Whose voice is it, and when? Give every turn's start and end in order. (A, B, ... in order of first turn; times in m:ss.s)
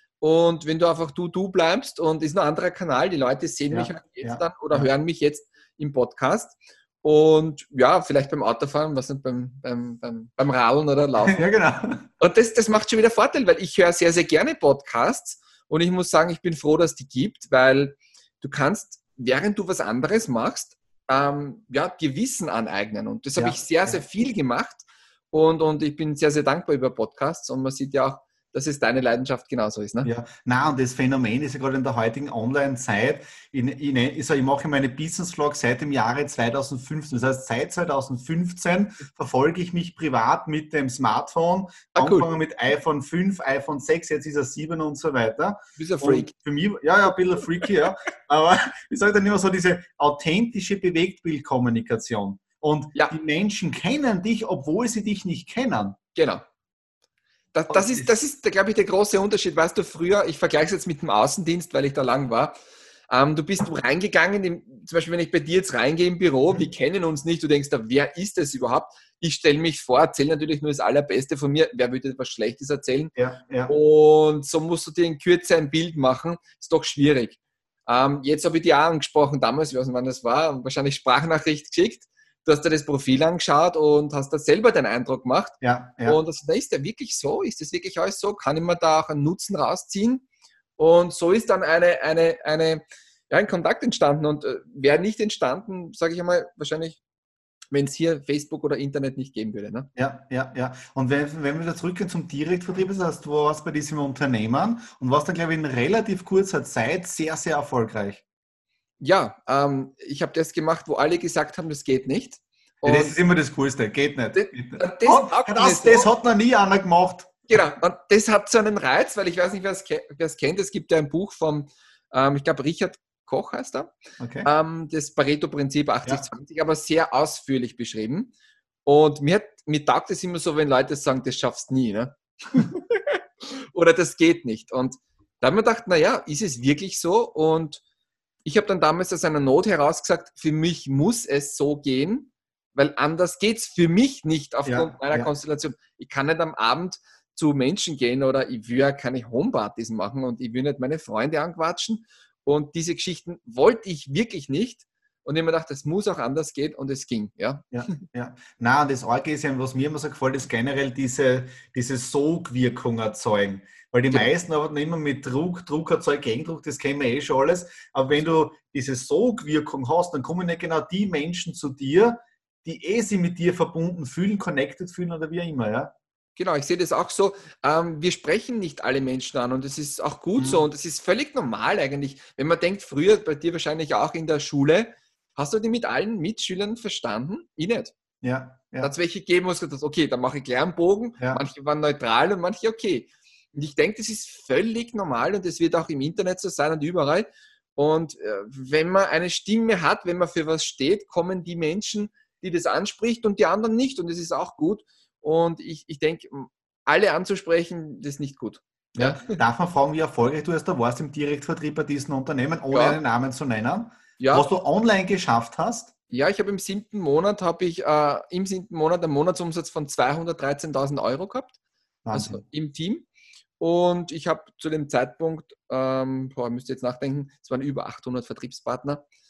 0:00.2-0:11.4 A
0:03.7-0:04.9 B
0:11.2-0:12.0 B
0:12.2-0:30.1 A
0:23.4-0:24.0 B
0:30.0-0:56.0 B
0:41.9-0:42.3 A
0:45.8-0:46.3 A
0:56.1-0:56.4 A
0:57.5-1:02.5 A
0:57.7-0:58.1 B
1:03.1-1:13.1 A
1:13.2-1:13.7 B
1:13.7-1:30.2 A
1:25.6-1:26.2 B
1:30.8-1:37.0 A
1:37.7-1:39.9 A
1:40.0-1:48.2 B
1:49.0-1:53.2 A
1:52.8-1:57.4 B
1:54.3-1:56.1 A
1:57.5-2:08.3 A
2:04.2-2:04.5 B
2:08.8-2:13.2 A
2:13.7-2:17.8 A
2:18.4-2:38.0 A
2:24.7-2:25.3 B
2:37.7-2:55.9 B
2:56.4-3:07.9 A
3:08.2-3:08.9 B
3:08.8-3:29.4 A
3:29.0-3:35.9 B
3:32.7-3:33.0 A
3:34.2-3:34.5 A
3:36.1-3:41.5 A
3:42.0-3:42.4 B
3:42.1-3:43.0 A
3:43.6-3:49.0 A